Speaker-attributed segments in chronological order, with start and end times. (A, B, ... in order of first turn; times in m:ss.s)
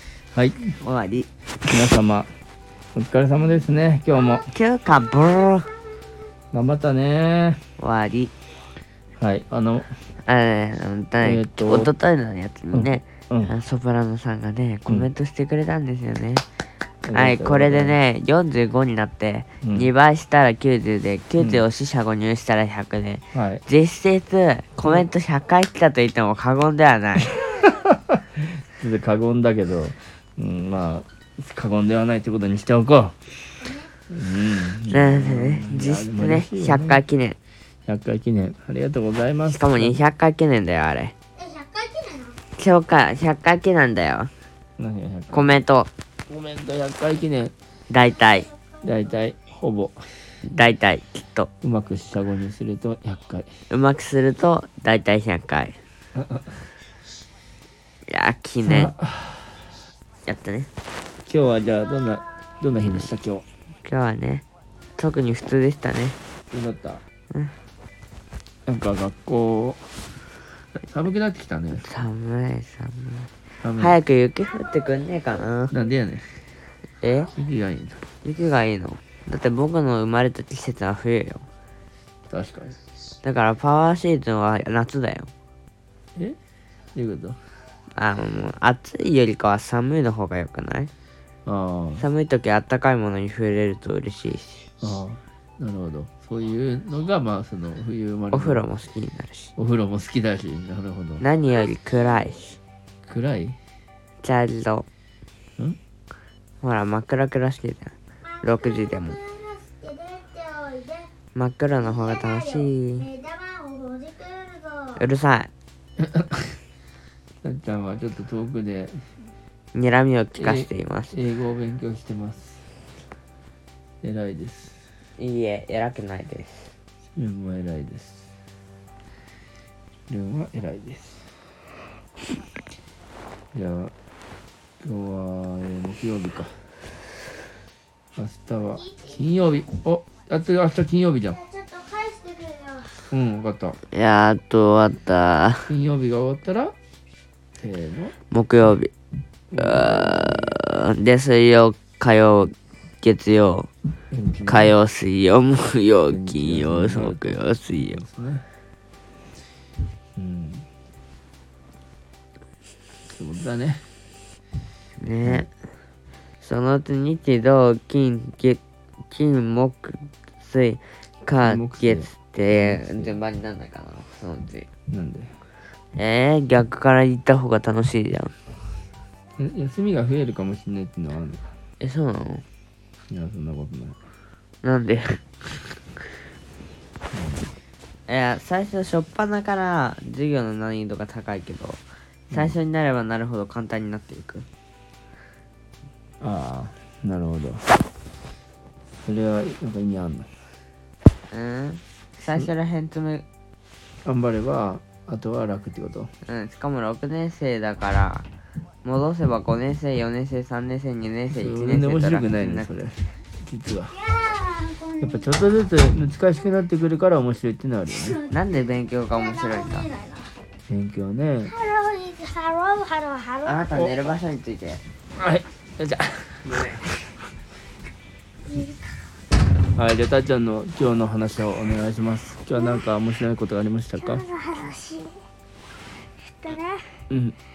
0:00.3-0:00.7 A
0:00.7-0:01.3 B
0:01.6-0:02.3 A
0:03.0-0:04.5 A
0:04.1-0:05.8 B
0:06.5-0:07.6 A
0:07.8-0:08.3 B
0:09.2-0:10.0 A
0:10.2-0:16.5 B
0:11.2-0:11.9 A
0:12.7-0:13.5 A
0:17.0-0:18.0 A
0:17.1-0:27.6 B
0:19.6-0:19.9 A
0:21.4-0:21.6 A
0:23.3-0:23.6 A
0:27.3-0:37.0 A
0:34.9-0:37.4 B
0:37.9-0:40.0 A
0:39.5-0:41.1 B
0:41.4-0:42.4 C
0:42.6-0:44.3 B
0:44.8-0:45.6 A
0:45.3-0:45.9 B
0:46.3-0:47.5 A
0:47.9-0:48.5 B
0:48.8-0:50.2 A
0:50.4-0:51.5 B
0:51.6-0:53.5 A
0:53.7-0:55.8 B
0:56.2-0:56.7 A
0:58.1-0:58.9 B
0:58.6-0:59.6 A
1:00.2-1:00.7 B
1:01.2-1:03.4 A
1:03.8-1:04.4 B
1:05.0-1:06.2 B
1:06.5-1:07.0 A
1:07.3-1:07.6 B
1:08.7-1:09.9 A
1:10.6-1:11.9 A
1:11.8-1:15.8 B
1:13.6-1:14.0 A
1:15.7-1:16.5 A
1:17.0-1:17.3 B
1:17.3-1:18.0 A
1:18.2-1:21.5 B
1:22.3-1:22.8 A
1:23.2-1:25.3 B
1:27.0-1:27.4 A
1:28.0-1:30.9 B
1:31.5-1:32.0 A
1:32.0-1:34.7 B
1:34.8-1:38.7 A
1:38.3-1:39.5 B
1:39.6-1:41.2 A
1:41.2-1:42.6 B
1:43.0-1:43.6 A
1:44.2-1:44.9 B
1:46.6-1:49.2 B
1:48.6-1:51.1 C
1:51.4-1:53.1 B
1:51.9-1:55.0 C
1:55.0-1:55.5 B
1:56.0-1:56.5 A
1:57.4-1:59.1 A
1:59.7-2:01.1 B
2:00.4-2:02.7 A
2:04.0-2:04.9 A
2:05.2-2:06.8 B
2:07.2-2:08.3 A
2:10.1-2:11.4 A
2:13.5-2:13.9 A
2:14.8-2:16.7 A
2:18.2-2:21.4 A
2:21.3-2:22.9 C
2:23.1-2:23.8 A
2:23.9-2:25.7 B
2:25.7-2:26.8 A
2:27.6-2:28.2 A
2:28.3-2:28.9 B
2:29.5-2:30.6 A
2:29.6-2:33.7 B
2:34.1-2:34.7 A
2:34.5-2:38.0 B
2:36.1-2:37.4 A
2:37.9-2:38.4 A
2:40.2-2:40.7 A
2:43.0-2:43.9 A
2:45.0-2:45.5 B
2:46.4-2:54.7 B
2:51.4-2:53.1 A
2:54.9-2:55.4 A
2:56.0-2:58.3 B
2:59.4-3:01.5 A
3:01.8-3:02.4 B
3:03.1-3:04.0 A
3:04.6-3:05.8 B
3:07.1-3:07.5 A
3:08.1-3:14.5 B
3:16.2-3:17.7 A
3:19.0-3:20.3 A
3:21.3-3:23.2 B
3:24.0-3:26.1 A
3:26.2-3:28.3 B
3:28.8-3:32.8 B
3:31.3-3:34.0 A
3:33.9-3:35.4 C
3:35.0-3:38.2 A
3:37.9-3:38.4 C
3:38.3-3:39.9 B
3:39.1-3:40.4 C
3:40.7-3:41.5 A
3:41.4-3:43.8 C
3:43.4-3:44.8 B
3:45.2-3:46.5 A
3:46.4-3:47.0 B
3:48.5-3:49.0 C
3:49.7-3:54.2 A
3:52.5-3:52.8 C
3:54.0-3:55.2 C
3:56.2-3:57.0 C
3:57.1-3:57.4 A